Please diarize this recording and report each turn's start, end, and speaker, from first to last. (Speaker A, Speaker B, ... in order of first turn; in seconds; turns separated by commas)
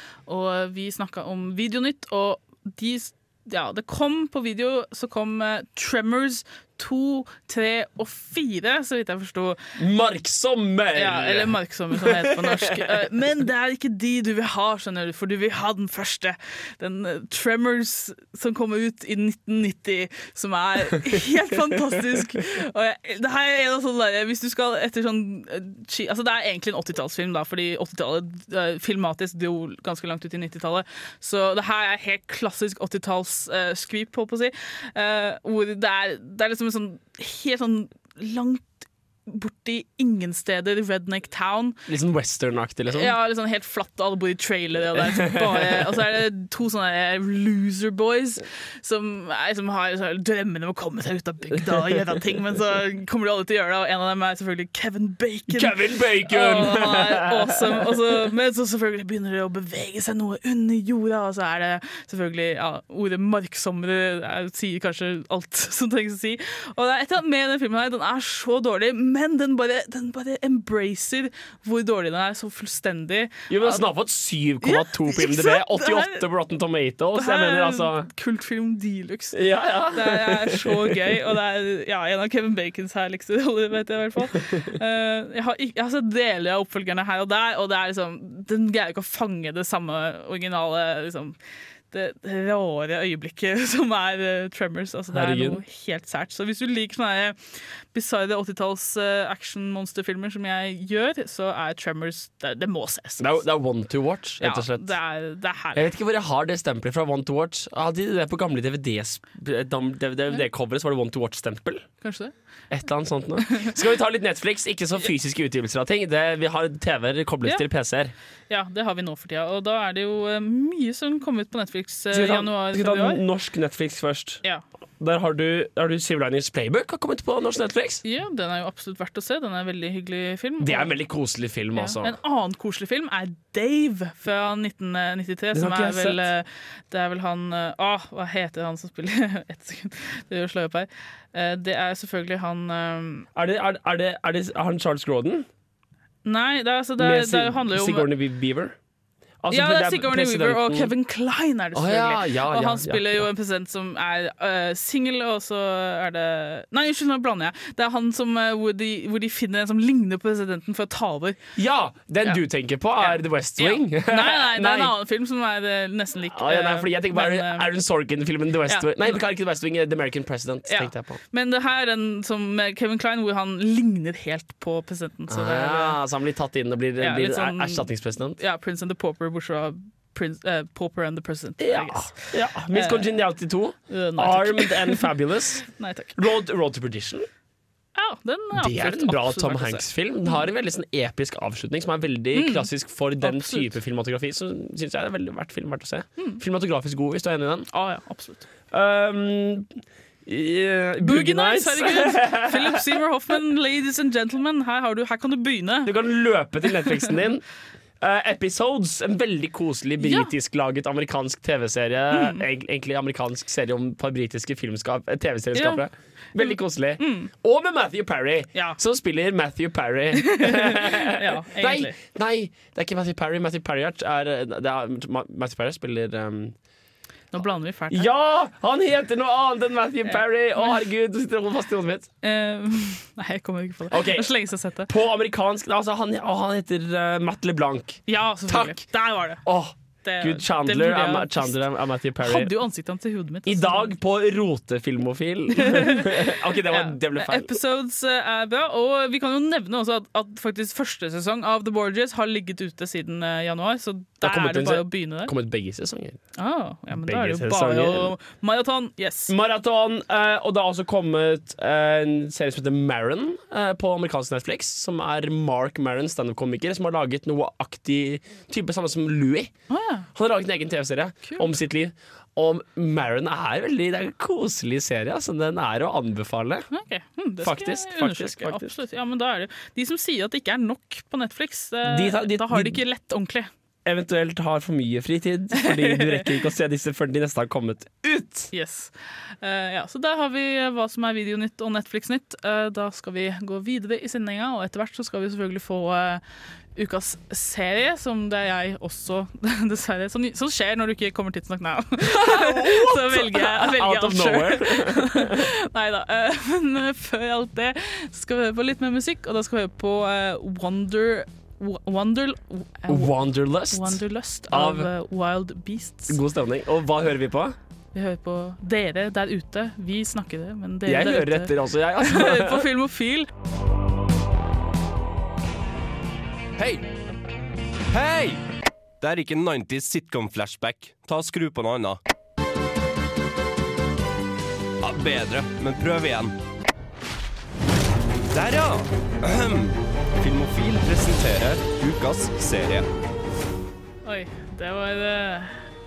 Speaker A: 0.3-9.6, Speaker B: 9.8-13.1, Speaker A: 10.9-38.7, Speaker A: 39.3-41.8, Speaker B: 41.9-43.1, Speaker A: 42.9-55.8, Speaker B: 45.0-45.9, Speaker B: 51.5-52.0, Speaker B: 55.5-57.9, Speaker A: 56.3-73.8, Speaker B: 73.5-78.1, Speaker A: 74.6-76.3, Speaker A: 77.2-91.4, Speaker B: 79.3-81.0, Speaker A: 91.9-103.4, Speaker B: 95.1-95.6, Speaker B: 103.2-105.0, Speaker A: 104.4-105.8, Speaker B: 105.7-112.0, Speaker A: 112.0-112.3, Speaker B: 112.7-118.1, Speaker A: 113.5-113.8, Speaker A: 118.5-123.2, Speaker B: 122.1-124.4, Speaker B: 125.0-128.0, Speaker A: 128.0-130.9, Speaker B: 130.6-132.2, Speaker A: 131.8-143.3, Speaker B: 135.5-136.3, Speaker B: 143.3-145.5, Speaker A: 146.2-148.1, Speaker B: 147.0-148.8, Speaker B: 149.4-150.9, Speaker A: 149.5-161.4, Speaker B: 151.7-153.2, Speaker B: 161.6-164.9, Speaker A: 163.0-167.7, Speaker B: 166.3-171.2, Speaker A: 168.7-169.2, Speaker A: 170.7-176.0, Speaker B: 175.3-178.4, Speaker A: 177.0-183.2, Speaker B: 181.6-187.3, Speaker A: 183.9-185.1, Speaker A: 185.7-186.2, Speaker A: 187.9-190.5, Speaker B: 188.6-197.7, Speaker A: 192.3-192.7, Speaker A: 193.2-193.7, Speaker A: 197.7-198.5, Speaker B: 198.7-202.8, Speaker A: 201.0-205.9, Speaker B: 205.9-207.4, Speaker A: 206.7-207.1, Speaker B: 208.0-226.6, Speaker A: 210.0-210.3, Speaker A: 212.1-212.4, Speaker A: 215.5-215.8, Speaker A: 216.4-217.3, Speaker A: 218.5-218.8, Speaker A: 220.2-222.0, Speaker A: 227.3-228.1, Speaker B: 227.9-232.1, Speaker A: 230.1-230.8, Speaker A: 232.2-234.9, Speaker B: 233.9-238.9, Speaker A: 238.1-239.4, Speaker B: 239.4-242.5, Speaker A: 240.0-241.6, Speaker A: 242.2-243.9, Speaker B: 243.4-247.6, Speaker A: 245.6-255.3, Speaker B: 254.2-256.2, Speaker A: 256.4-259.3, Speaker B: 256.9-258.1, Speaker B: 259.3-269.5, Speaker A: 269.7-270.1, Speaker B: 270.1-276.7, Speaker A: 271.2-271.5, Speaker A: 276.7-283.5, Speaker B: 277.4-278.7, Speaker B: 281.9-282.8, Speaker B: 283.9-288.5, Speaker A: 285.6-286.3, Speaker A: 288.5-296.2, Speaker A: 296.8-316.2, Speaker B: 302.0-305.4, Speaker B: 312.9-314.9, Speaker B: 316.1-317.6, Speaker A: 317.9-323.3, Speaker B: 320.9-322.7, Speaker C: 326.6-326.8, Speaker C: 327.9-328.4, Speaker C: 329.0-332.0, Speaker C: 334.8-336.4, Speaker C: 338.3-342.9, Speaker A: 344.1-345.7